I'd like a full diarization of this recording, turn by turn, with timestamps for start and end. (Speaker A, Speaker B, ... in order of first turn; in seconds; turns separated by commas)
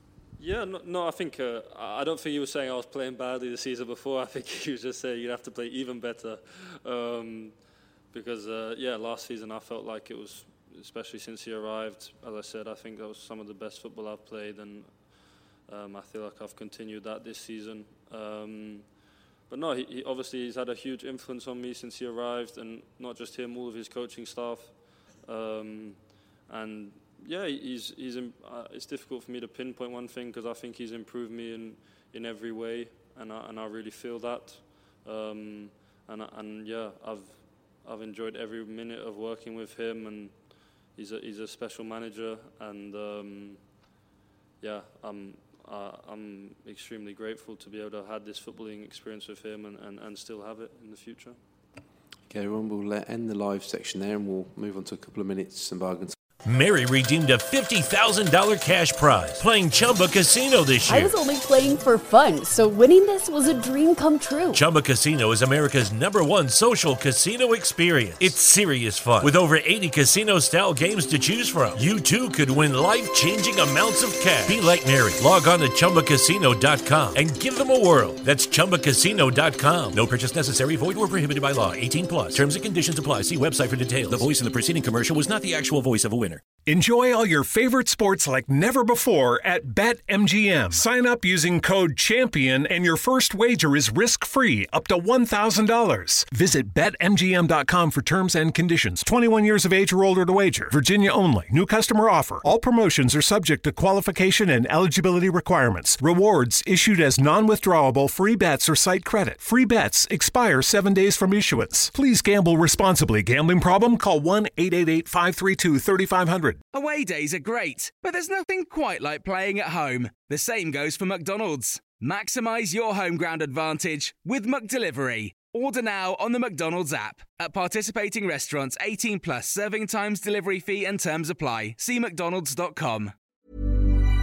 Speaker A: 0.4-7.6, Speaker A: 8.1-18.9, Speaker A: 19.5-43.8, Speaker A: 44.6-51.4, Speaker B: 52.3-56.2, Speaker C: 56.4-61.2, Speaker D: 60.9-64.6, Speaker C: 64.5-86.5, Speaker E: 86.7-116.6, Speaker F: 116.7-133.1